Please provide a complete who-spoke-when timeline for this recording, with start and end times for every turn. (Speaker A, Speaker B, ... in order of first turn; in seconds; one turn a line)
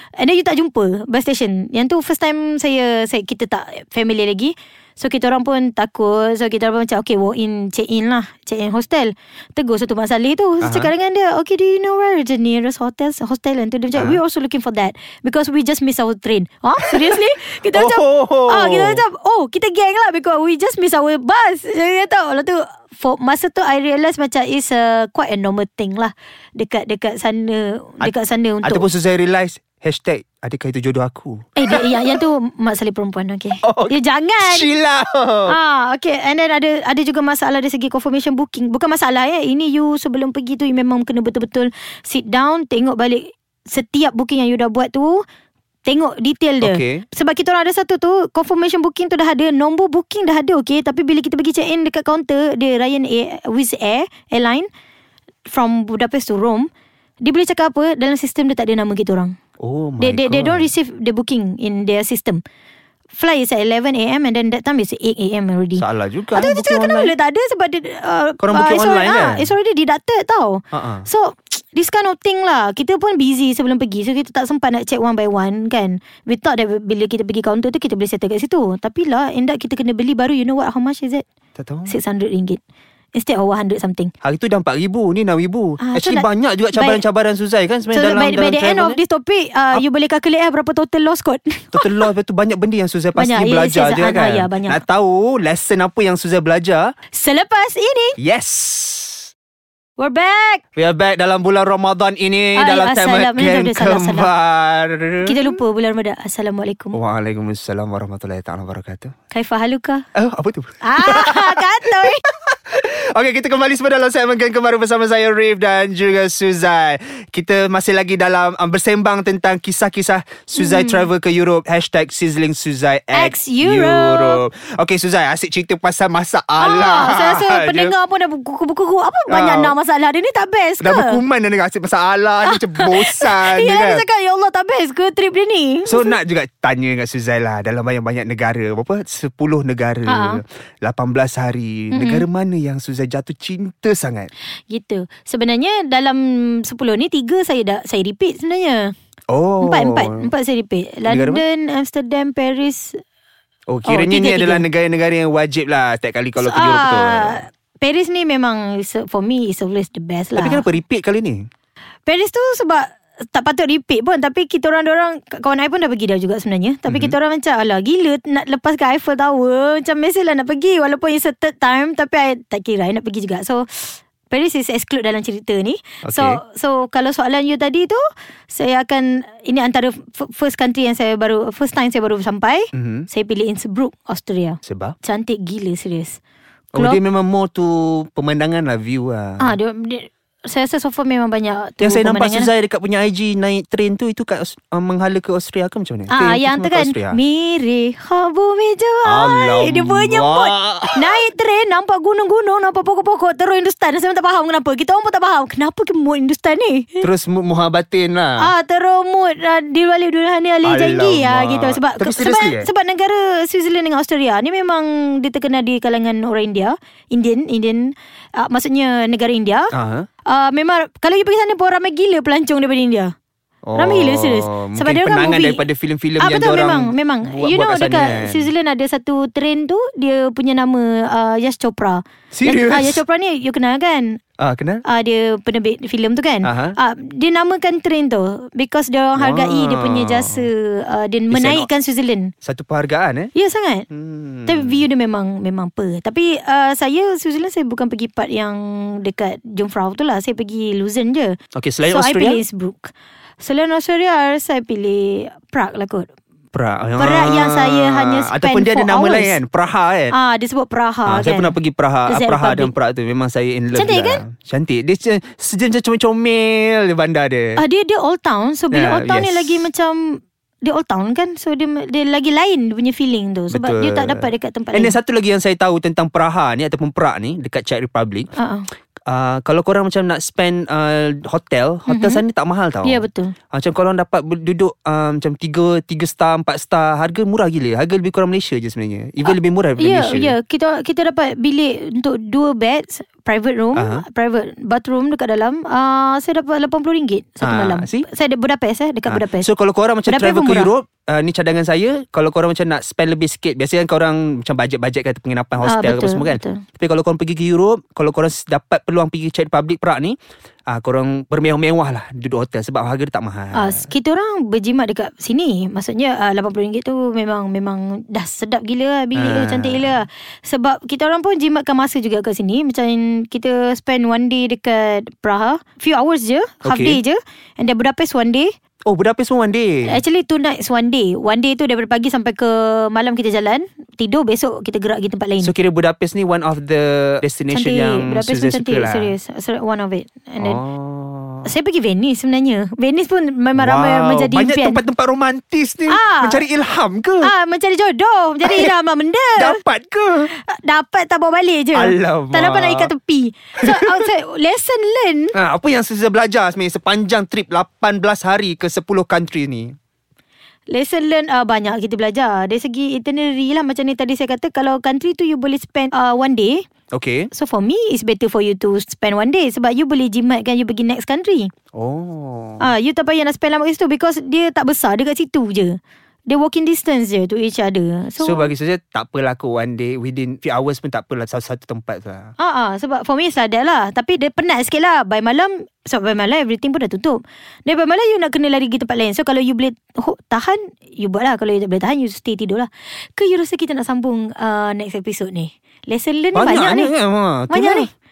Speaker A: 0.2-28.9
Speaker B: 10.6-10.9
Speaker B: 13.9-14.2
Speaker B: 17.7-19.0
Speaker B: 28.0-32.2
Speaker A: 31.6-34.7
Speaker B: 33.6-35.5
Speaker A: 35.5-45.2
Speaker A: 45.8-54.7
Speaker B: 46.6-47.0
Speaker A: 55.5-56.7
Speaker A: 57.2-59.3
Speaker B: 59.6-60.7
Speaker A: 60.0-62.4
Speaker A: 63.1-81.2
Speaker B: 65.8-67.1
Speaker B: 68.4-69.5
Speaker B: 70.7-71.1
Speaker B: 81.5-81.9
Speaker A: 81.9-82.6
Speaker A: 83.1-84.1
Speaker B: 84.2-89.0
Speaker A: 85.8-87.0
Speaker A: 87.9-92.0
Speaker B: 91.7-96.9
Speaker A: 93.1-94.8
Speaker A: 97.1-98.2
Speaker B: 98.2-99.3
Speaker A: 100.0-100.6
Speaker B: 100.8-105.6
Speaker A: 102.5-104.3
Speaker A: 105.2-107.0
Speaker B: 106.9-109.1
Speaker A: 109.3-110.0
Speaker B: 110.2-127.9
Speaker A: 110.8-112.2
Speaker A: 120.6-121.1
Speaker A: 123.1-124.4
Speaker A: 126.6-131.2
Speaker B: 129.3-129.7
Speaker B: 130.8-134.0
Speaker A: 132.4-136.2
Speaker B: 135.8-144.3
Speaker A: 140.1-140.4
Speaker A: 141.9-142.2
Speaker A: 144.7-148.9
Speaker B: 149.3-150.3
Speaker A: 149.6-153.0
Speaker B: 151.1-151.4
Speaker B: 153.7-157.4
Speaker A: 153.8-154.7
Speaker A: 156.4-160.7
Speaker B: 160.3-161.4
Speaker A: 162.1-186.2
Speaker B: 166.9-167.2
Speaker B: 176.0-176.4
Speaker B: 182.7-183.1
Speaker B: 184.6-184.9
Speaker B: 186.7-189.6
Speaker A: 186.7-187.0
Speaker A: 189.4-192.5
Speaker B: 191.8-197.2
Speaker A: 196.1-207.1
Speaker B: 199.0-201.2
Speaker B: 207.0-208.5
Speaker A: 208.4-219.7
Speaker B: 210.6-212.7
Speaker B: 219.7-220.1
Speaker A: 220.2-223.1
Speaker B: 223.6-228.5
Speaker A: 223.7-225.6
Speaker A: 226.2-234.2
Speaker B: 232.3-233.0
Speaker B: 234.4-234.8
Speaker A: 234.8-242.3
Speaker B: 236.4-236.8
Speaker B: 239.2-240.5
Speaker B: 241.3-241.7
Speaker B: 242.4-243.3
Speaker A: 243.3-243.9
Speaker B: 243.9-244.8
Speaker A: 244.4-251.4
Speaker B: 251.5-252.4
Speaker A: 251.9-256.1
Speaker B: 256.5-260.1
Speaker A: 257.0-259.4
Speaker A: 260.1-262.7
Speaker B: 261.1-267.6
Speaker A: 263.7-264.2
Speaker A: 267.6-275.0
Speaker B: 268.7-269.7
Speaker B: 273.5-278.3
Speaker A: 278.4-278.7
Speaker B: 279.1-290.3
Speaker A: 281.9-282.2
Speaker A: 282.8-283.3
Speaker A: 289.2-299.5
Speaker B: 293.8-294.0
Speaker B: 297.4-298.1
Speaker B: 299.1-310.2
Speaker A: 300.1-300.7
Speaker A: 305.6-306.6
Speaker B: 310.7-313.9
Speaker A: 313.5-328.5
Speaker B: 319.1-320.0
Speaker B: 326.6-327.0
Speaker B: 328.9-330.0
Speaker A: 329.8-335.5
Speaker B: 335.4-339.1
Speaker A: 337.5-340.6
Speaker B: 340.4-341.5
Speaker A: 341.4-344.8
Speaker B: 343.6-347.3
Speaker A: 345.9-346.4
Speaker A: 347.2-349.6
Speaker B: 348.4-348.7
Speaker B: 349.4-350.3
Speaker A: 350.3-355.3
Speaker B: 351.7-352.9
Speaker B: 353.6-354.1
Speaker B: 355.3-359.8
Speaker A: 360.7-366.6
Speaker B: 366.9-367.3
Speaker A: 367.3-371.5
Speaker B: 371.7-372.7
Speaker A: 372.6-375.8
Speaker A: 376.3-378.5
Speaker B: 378.2-382.3
Speaker A: 382.4-396.9
Speaker B: 396.3-397.9
Speaker A: 397.5-397.9